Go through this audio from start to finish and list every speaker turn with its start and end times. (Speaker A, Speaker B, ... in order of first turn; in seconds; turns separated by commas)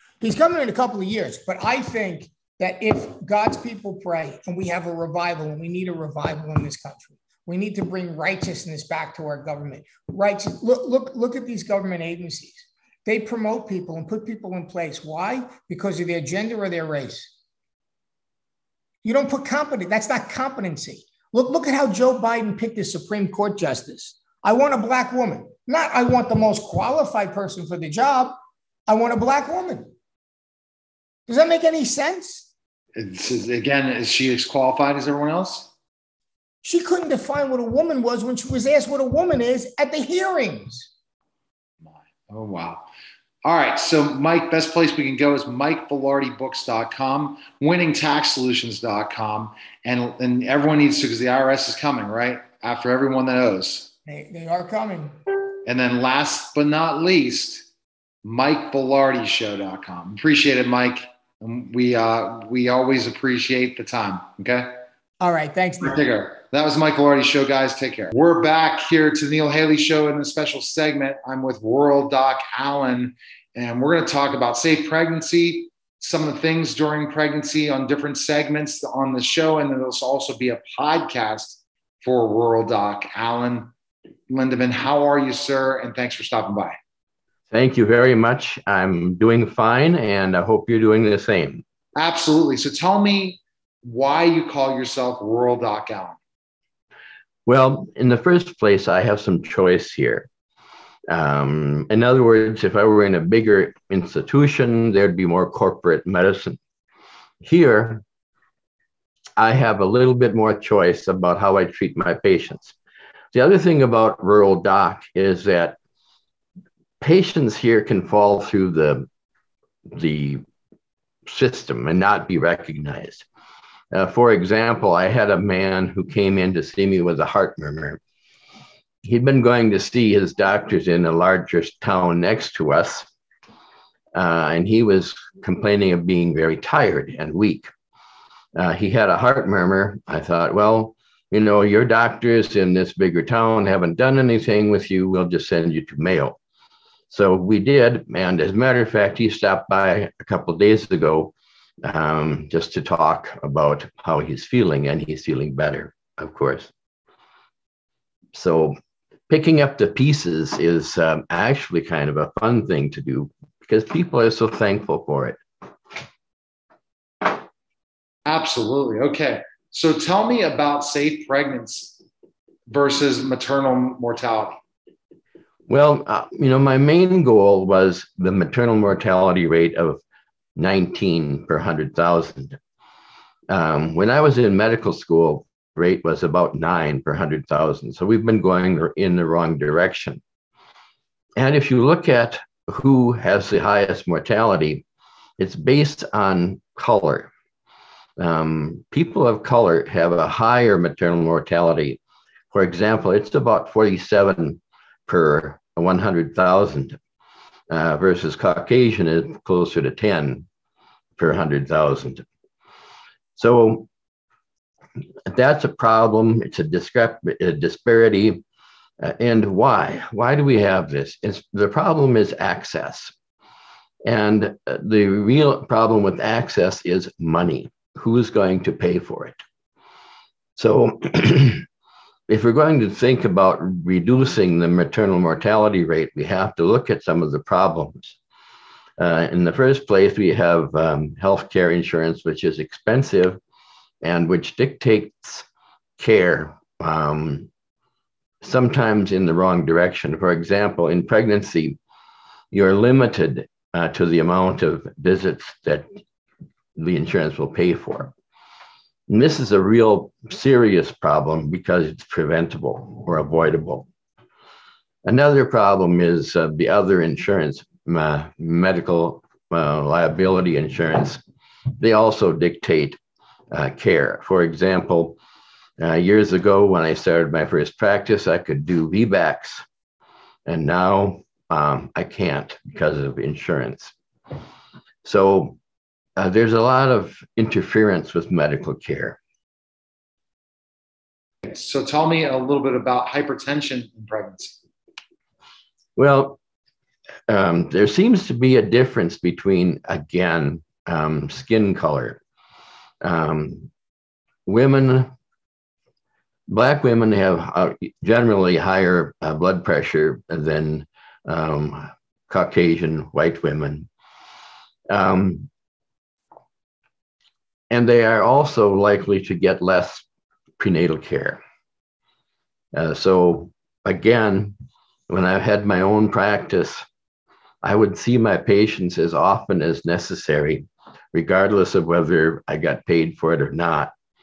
Speaker A: 0.2-17.3, Speaker A: 19.0-28.4, Speaker A: 28.9-29.9, Speaker A: 31.3-32.5, Speaker B: 33.0-35.7, Speaker A: 36.6-40.9, Speaker B: 41.9-42.9, Speaker B: 43.4-53.9, Speaker A: 54.0-55.1, Speaker B: 55.6-57.6, Speaker B: 58.2-64.8, Speaker A: 65.2-66.0, Speaker B: 65.8-83.7, Speaker B: 84.3-86.8, Speaker C: 87.5-91.6, Speaker B: 91.9-96.2, Speaker C: 97.5-100.3, Speaker C: 101.1-106.6, Speaker C: 107.4-108.0, Speaker C: 109.4-112.7, Speaker C: 113.3-115.8, Speaker C: 117.0-119.1, Speaker C: 119.9-120.4, Speaker C: 121.3-123.2, Speaker C: 123.9-128.0, Speaker C: 129.0-133.1, Speaker C: 134.1-137.7, Speaker C: 138.6-146.4, Speaker C: 147.1-156.7, Speaker C: 158.3-158.8, Speaker C: 159.3-165.4, Speaker B: 168.2-171.9, Speaker B: 172.7-174.6, Speaker C: 175.7-180.0, Speaker C: 180.6-182.6, Speaker C: 183.5-190.2, Speaker C: 191.3-194.8, Speaker C: 195.4-197.3, Speaker C: 198.2-202.0, Speaker C: 202.5-207.0, Speaker C: 207.7-210.4, Speaker C: 211.2-212.2, Speaker C: 213.3-213.9, Speaker C: 215.3-218.4, Speaker C: 219.0-223.1, Speaker C: 224.0-229.4, Speaker C: 230.6-231.6, Speaker C: 232.3-238.2, Speaker C: 239.0-243.4, Speaker C: 244.0-245.4, Speaker C: 246.0-247.5, Speaker C: 248.4-251.8, Speaker C: 252.5-255.9, Speaker C: 256.8-258.1, Speaker C: 259.1-263.9, Speaker C: 265.0-271.2, Speaker C: 271.8-273.0, Speaker C: 273.5-275.2, Speaker C: 275.8-279.6, Speaker C: 280.4-283.9, Speaker C: 285.0-285.6, Speaker C: 286.2-289.2, Speaker B: 291.4-294.6, Speaker C: 295.9-296.4, Speaker C: 297.3-302.2, Speaker C: 303.0-303.7, Speaker C: 304.4-305.1, Speaker C: 306.5-313.9, Speaker C: 314.9-315.5, Speaker C: 317.7-320.0, Speaker C: 320.6-321.4, Speaker C: 322.7-324.5, Speaker C: 325.1-326.8, Speaker C: 327.6-333.9